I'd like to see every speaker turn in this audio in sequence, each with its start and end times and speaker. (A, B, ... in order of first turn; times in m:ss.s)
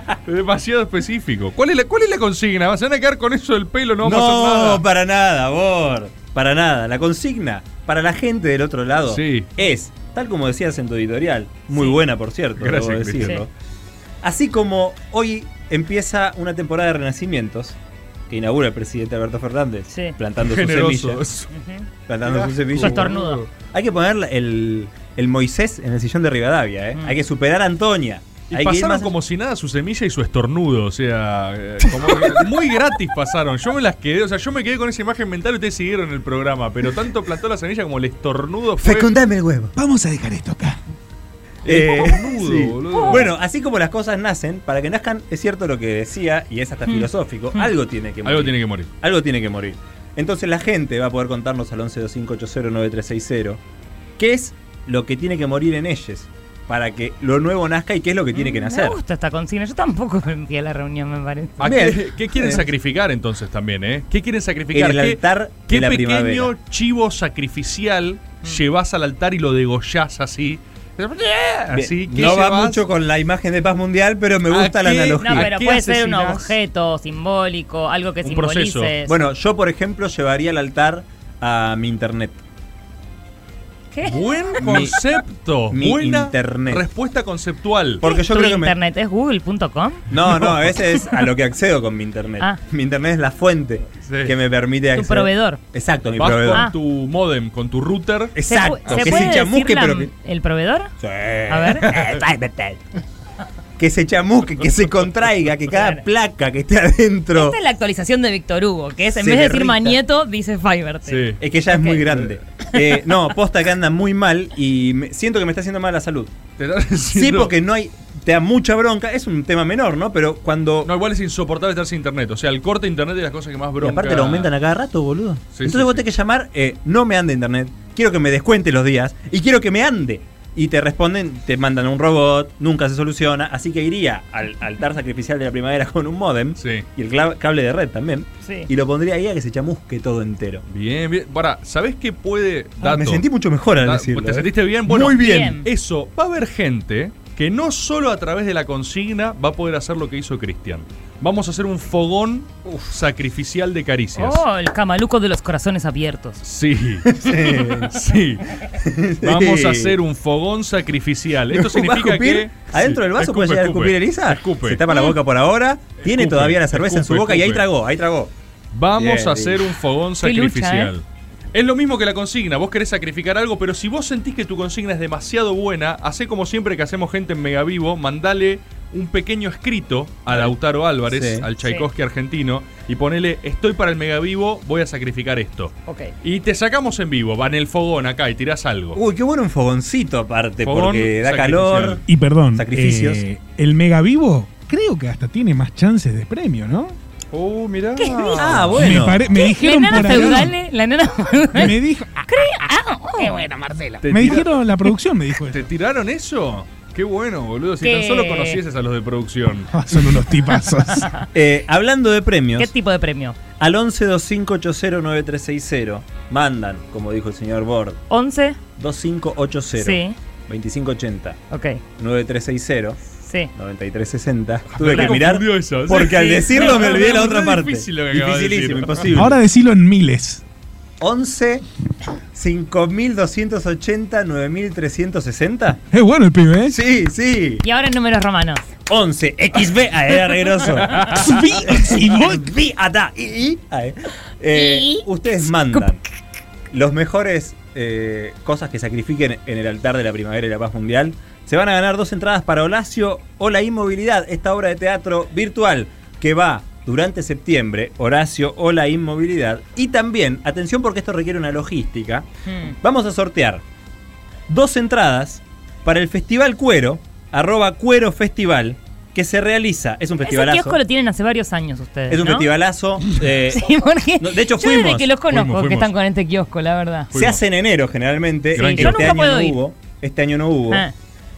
0:00.2-0:04.8 A
0:04.0-0:13.5 B
0:09.1-0:09.5 A
0:12.6-0:13.4 A
0:14.2-0:17.8 B
0:18.3-0:21.2 B
0:19.9-0:20.2 C
0:20.4-0:21.5 A
0:21.5-0:21.8 C
0:22.1-0:23.1 B
0:22.2-0:23.5 A
0:22.8-0:23.4 C
0:23.7-0:29.1 B
0:28.5-0:39.1 A
0:38.8-0:39.7 B
0:39.7-0:40.8 D
0:41.6-0:43.3 A
0:41.6-0:53.6 B
0:46.9-0:47.6 C
0:48.2-0:48.9 A
0:54.2-0:59.0 B
0:58.3-1:01.7 C
1:01.6-1:12.8 A
1:01.6-1:02.6 B
1:04.7-1:06.5 B
1:11.7-1:15.5 B
1:14.5-1:16.5 A
1:15.2-1:19.2 C
1:18.2-1:18.9 A
1:19.0-1:22.4 B
1:23.9-1:24.6 C
1:24.0-1:28.0 A
1:24.6-1:24.9 B
1:25.7-1:26.8 B
1:28.0-1:28.7 B
1:28.0-1:30.0 C
1:30.1-1:36.6 B
1:30.3-1:30.7 A
1:34.0-1:34.3 A
1:34.9-1:35.6 C
1:36.2-1:39.4 A
1:38.3-1:40.1 B
1:38.5-1:40.9 C
1:41.0-1:42.8 B
1:41.5-1:41.9 C
1:43.8-1:47.6 B
1:45.7-1:46.0 C
1:47.3-1:52.0 C
1:49.2-1:50.0 B
1:51.1-1:51.4 A
1:51.4-1:56.3 B
1:52.1-1:52.3 A
1:56.6-1:57.5 A
1:57.1-2:00.9 B
2:00.8-2:04.5 A
2:03.8-2:20.6 B
2:05.5-2:06.0 A
2:16.6-2:16.8 A
2:18.4-2:18.7 C
2:20.7-2:23.2 A
2:22.8-2:25.5 B
2:23.8-2:34.4 A
2:25.1-2:25.6 C
2:34.2-2:36.4 C
2:36.4-2:38.4 A
2:37.1-2:37.9 B
2:38.8-2:39.9 B
2:39.2-2:44.8 A
2:41.5-2:48.3 B
2:46.0-2:47.6 A
2:48.7-3:09.0 A
2:49.0-2:49.6 B
2:50.2-2:50.9 C
3:01.1-3:01.4 B
3:01.6-3:01.9 C
3:05.9-3:06.1 C
3:08.9-3:12.0 B
3:10.6-3:12.0 A
3:12.1-3:17.0 D
3:12.5-3:13.2 B
3:17.3-3:19.0 A
3:18.0-3:18.4 C
3:18.4-3:19.2 B
3:18.7-3:20.5 D
3:19.3-3:21.7 C
3:19.9-3:20.4 A
3:21.5-3:22.2 D
3:22.3-3:23.5 C
3:24.0-3:24.5 A
3:24.0-3:25.7 D
3:25.5-3:29.7 A
3:27.8-3:28.6 C
3:29.7-3:31.1 D
3:31.0-3:31.2 C
3:31.3-3:32.7 B
3:32.6-3:33.4 C
3:33.6-3:38.0 B
3:38.1-3:38.6 C
3:38.8-3:41.4 B
3:39.8-3:40.1 C
3:41.5-3:41.8 C
3:42.0-3:43.0 B
3:43.2-3:43.5 C
3:43.5-3:49.4 B
3:44.7-3:49.1 A
3:44.9-3:45.2 C
3:46.2-3:47.0 C
3:49.1-3:50.4 D
3:51.0-3:51.6 B
3:52.3-3:55.8 B
3:55.9-3:56.8 D
3:56.7-3:57.6 B
3:57.6-3:58.7 C
3:58.9-4:01.1 B
4:01.1-4:02.5 D
4:01.7-4:06.0 B
4:04.5-4:05.0 C
4:06.7-4:22.3 B
4:22.4-4:22.7 C
4:22.8-4:23.6 B
4:24.5-4:30.8 B
4:30.2-4:32.5 C
4:32.1-4:35.1 B
4:33.5-4:37.1 C
4:35.3-4:35.9 A
4:37.1-4:37.4 A
4:37.1-4:40.8 B
4:38.5-4:39.2 A
4:38.6-4:39.6 C